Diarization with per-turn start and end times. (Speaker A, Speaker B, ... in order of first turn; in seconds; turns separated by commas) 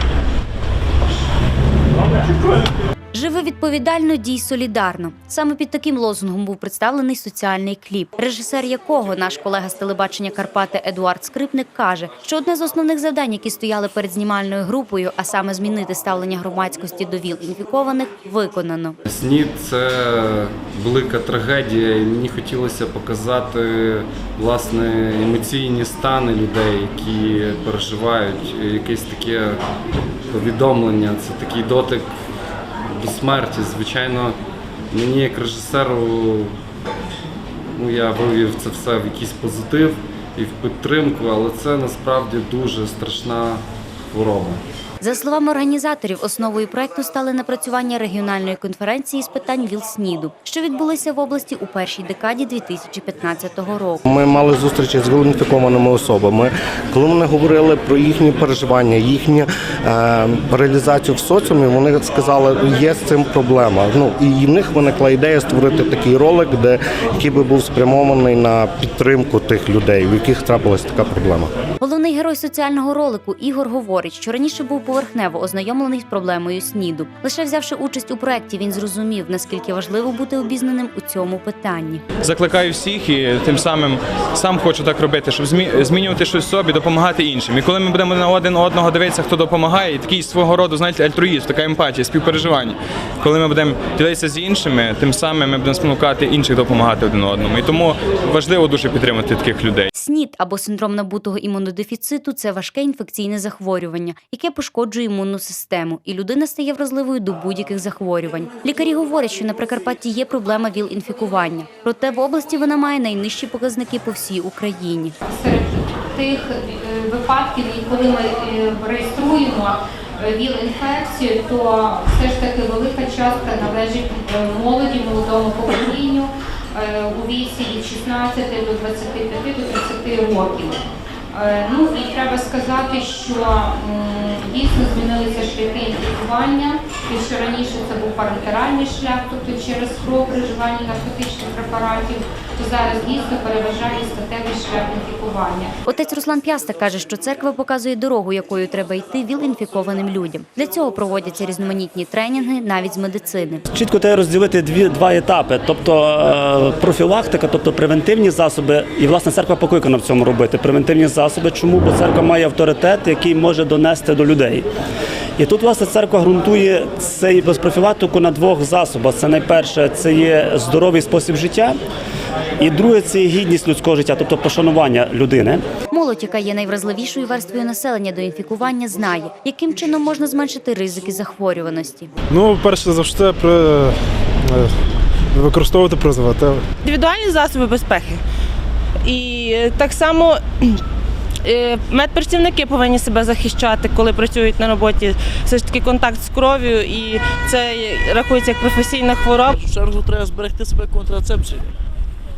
Speaker A: 3.1-19.0, Speaker B: 19.1-29.6, Speaker B: 30.3-32.1, Speaker B: 32.8-34.4, Speaker B: 34.9-36.6, Speaker B: 37.7-44.6, Speaker A: 45.0-54.0, Speaker C: 54.0-71.5, Speaker A: 71.8-82.0, Speaker D: 82.2-99.9, Speaker A: 99.9-115.1, Speaker E: 115.2-145.7, Speaker A: 145.8-153.6, Speaker F: 153.7-164.7, Speaker F: 165.4-171.8, Speaker F: 172.6-175.6, Speaker A: 175.9-182.1, Speaker G: 182.3-184.7, Speaker G: 185.3-186.6, Speaker H: 186.8-188.2, Speaker H: 189.0-190.8, Speaker H: 191.4-199.6, Speaker I: 199.5-201.7